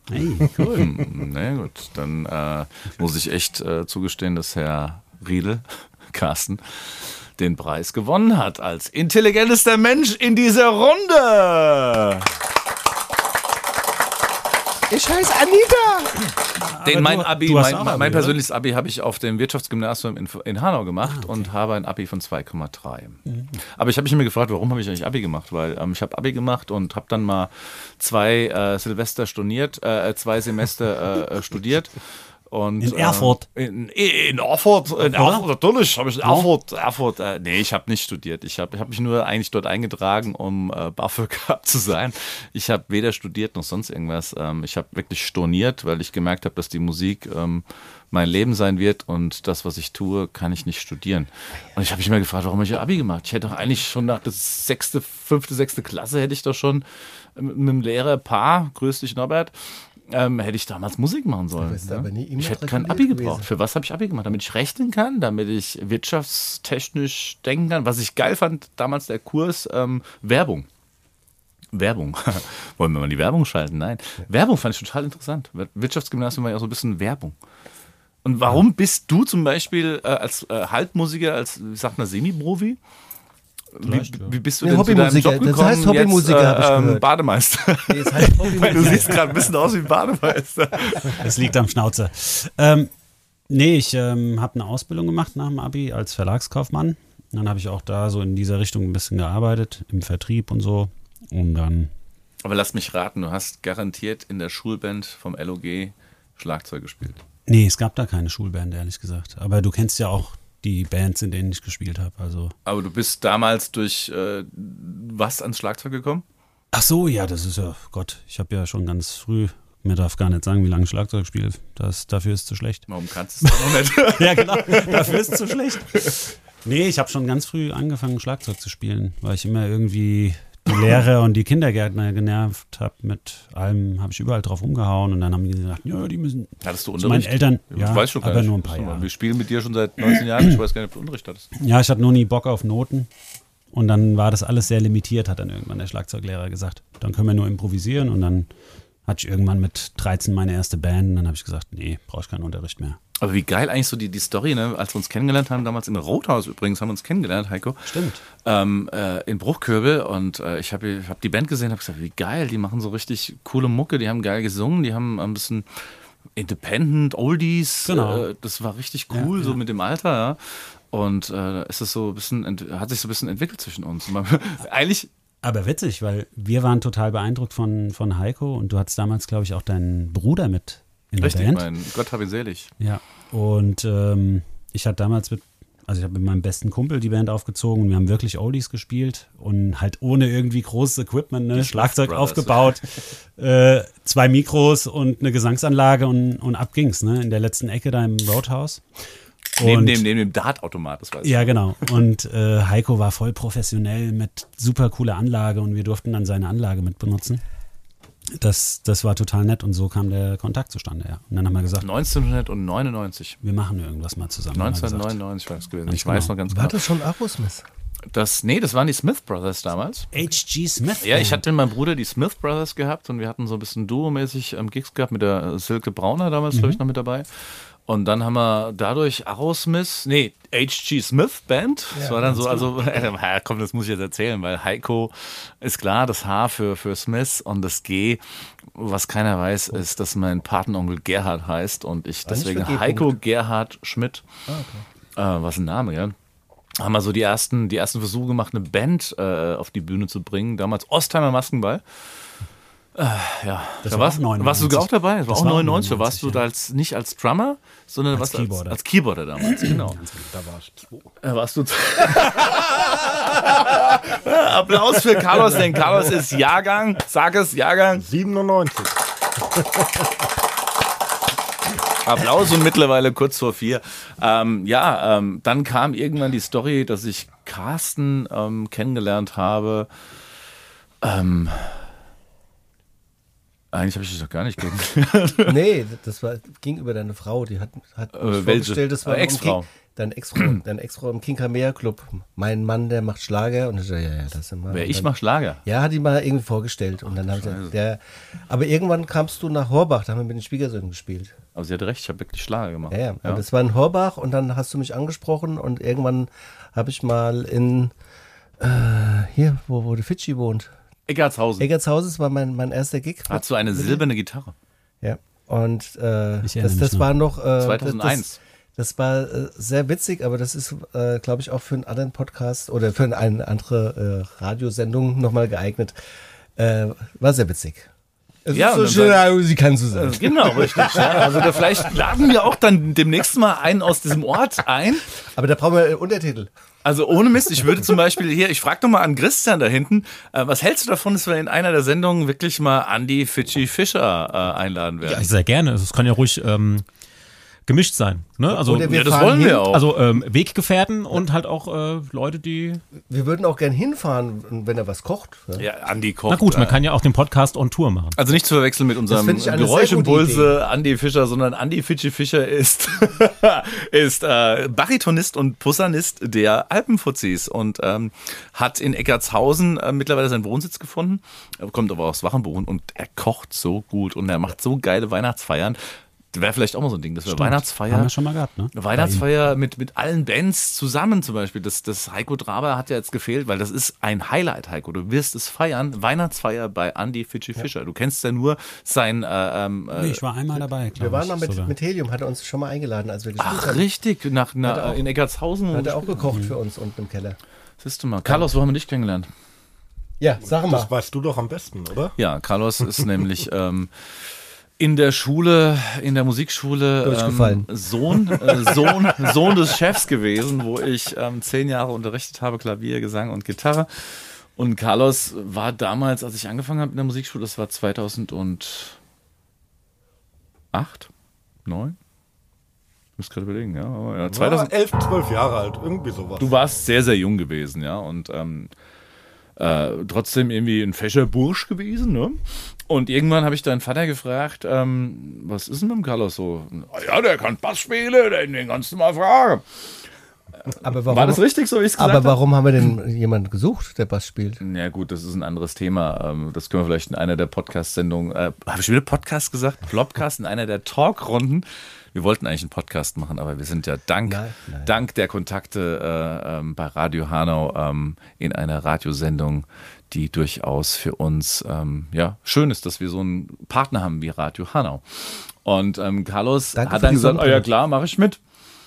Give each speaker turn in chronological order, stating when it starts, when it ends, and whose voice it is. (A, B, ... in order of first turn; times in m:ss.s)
0:00.1-0:00.9 A
0:00.4-0:12.3 B
0:14.9-0:16.3 C
0:16.6-0:18.4 A
0:16.8-1:10.7 B
0:21.0-0:21.5 A
0:23.3-0:23.6 A
0:32.8-0:33.4 A
0:35.1-0:35.4 A
0:36.2-0:36.5 A
1:01.6-1:03.5 C
1:11.7-1:17.3 B
1:18.2-1:22.8 B
1:23.7-1:31.2 B
1:23.8-1:24.4 A
1:24.6-1:27.0 C
1:27.9-1:29.2 C
1:28.7-1:29.3 A
1:31.1-1:32.9 A
1:33.5-1:41.9 A
1:42.4-1:47.2 B
1:47.5-1:52.5 A
1:52.6-1:56.2 B
1:56.7-2:02.8 A
2:02.9-2:06.0 B
2:03.4-2:19.1 A
2:16.6-2:21.5 B
2:20.1-2:20.5 A
2:21.6-2:23.1 A
2:23.7-2:28.5 A
2:29.1-2:33.0 A
2:33.2-2:55.1 B
2:37.9-2:38.2 A
2:47.8-2:48.3 A
2:49.1-2:49.6 A
2:55.4-3:01.7 A
3:01.2-3:02.7 B
3:02.8-3:18.8 A
3:11.5-3:12.8 B
3:19.6-3:20.0 A
3:19.6-3:21.6 B
3:21.2-3:27.4 A
3:28.4-3:31.9 A
3:31.8-3:33.4 B
3:33.4-3:35.2 A
3:34.5-3:36.9 B
3:35.9-3:36.3 A
3:36.5-3:37.6 C
3:38.1-3:40.1 B
3:40.1-3:41.4 A
3:41.0-4:04.2 B
3:46.5-3:46.8 A
3:51.9-3:52.7 C
4:02.2-4:03.2 C
4:04.5-4:04.8 C
4:05.2-4:06.1 B
4:06.8-4:12.2 B
4:12.9-4:20.0 B
4:13.8-4:16.4 A
4:18.1-4:18.8 A
4:19.4-4:20.3 A
4:20.2-4:21.1 D
4:21.2-4:28.0 B
4:27.9-4:30.1 D
4:32.0-4:39.9 B
4:41.0-4:41.9 B
4:43.7-4:45.6 B
4:45.4-4:55.1 C
4:48.1-4:49.6 B
4:54.7-4:55.6 B
4:55.6-5:01.3 C
4:57.1-4:57.7 B
5:01.5-5:03.4 B
5:02.9-5:07.9 C
5:08.6-5:10.7 C
5:11.1-5:11.7 B
5:11.6-5:14.0 C
5:13.3-5:14.5 B
5:15.0-5:18.2 C
5:16.4-5:17.1 A
5:17.6-5:18.4 B
5:18.8-5:25.9 C
5:26.6-5:27.9 C
5:28.4-5:31.6 C
5:28.5-5:29.3 B
5:29.9-5:35.1 B
5:35.2-5:36.5 C
5:36.8-5:45.3 B
5:45.0-5:46.8 E
5:47.6-5:52.8 E
5:48.5-5:49.7 C
5:48.9-5:49.8 B
5:53.1-5:55.6 C
5:55.6-5:56.8 B
5:56.3-5:58.2 E
5:58.2-6:18.1 B
5:59.1-6:00.5 C
6:17.3-6:19.2 A
6:18.7-6:30.6 B
6:29.9-6:31.7 A
6:31.0-6:33.8 C
6:33.4-6:36.3 B
6:34.6-6:35.0 C
6:35.7-6:37.4 C
6:36.3-6:36.6 A
6:37.8-6:39.3 B
6:40.2-6:40.9 C
6:40.4-6:42.1 D
6:42.2-6:59.0 B
6:47.0-6:47.7 C
7:00.7-7:01.1 B
7:01.6-7:01.9 B
7:03.2-7:04.7 B
7:04.3-7:06.5 D
7:06.4-7:08.7 B
7:09.6-7:19.8 B
7:20.7-7:21.4 C
7:20.7-7:22.4 B
7:22.0-7:24.6 C
7:24.6-7:48.4 B
7:34.3-7:34.9 C
7:46.7-7:47.7 C